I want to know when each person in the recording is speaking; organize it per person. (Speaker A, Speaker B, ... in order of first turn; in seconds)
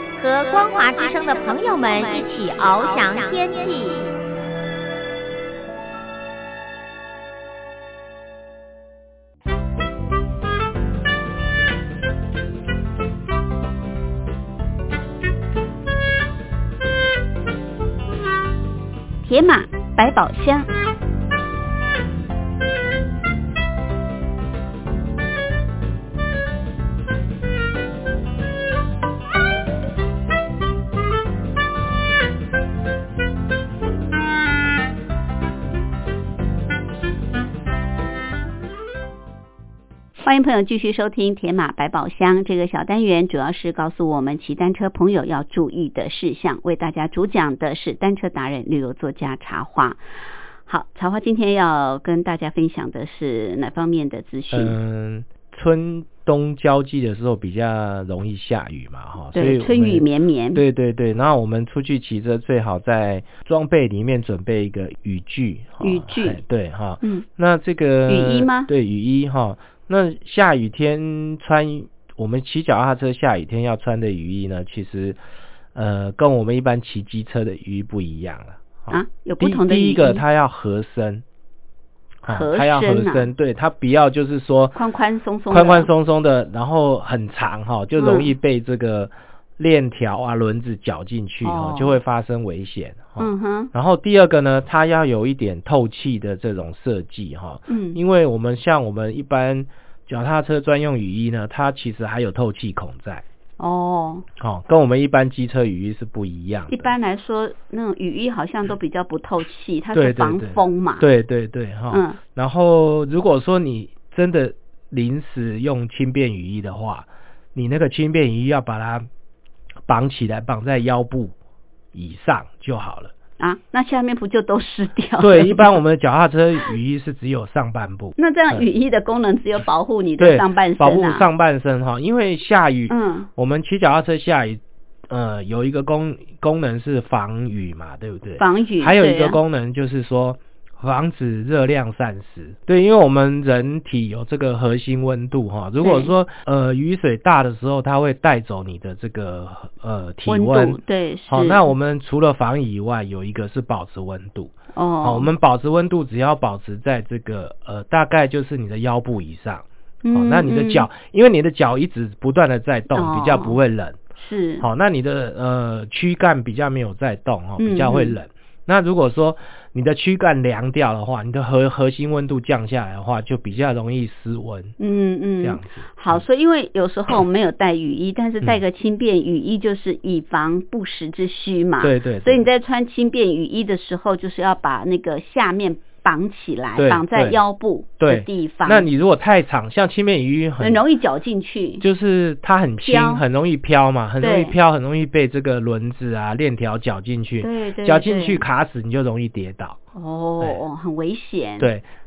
Speaker A: 0.2-4.1
Speaker B: 19.2-20.7, 40.2-50.0, 50.7-54.8, 59.3-60.6, 65.8-66.4, 68.1-68.7, 78.9-80.2, 82.3-83.3, 84.8-85.9, 88.0-88.3, 91.4-92.0, 93.2-93.7, 97.7-98.0, 103.6-104.3, 106.7-111.1, 111.9-112.2, 123.4-125.7, 128.2-131.3, 132.9-133.3, 138.4-139.4, 145.8-146.1, 150.3-151.7, 154.8-155.3, 160.0-160.9, 162.9-163.6, 164.2-164.7, 167.6-168.2, 174.8-188.9, 190.6-191.8, 192.8-193.2, 194.2-194.6, 197.4-198.5, 199.9-201.7
Speaker C: 54.5-75.2, 75.7-81.2, 82.2-84.8, 85.5-103.2, 104.4-106.9, 110.0-119.1, 119.9-121.3, 121.9-123.1, 125.2-128.7, 130.2-164.0, 164.6-174.8, 175.4-176.2, 181.8-182.4, 186.8-187.4, 188.0-190.8, 191.8-199.8, 201.6-201.9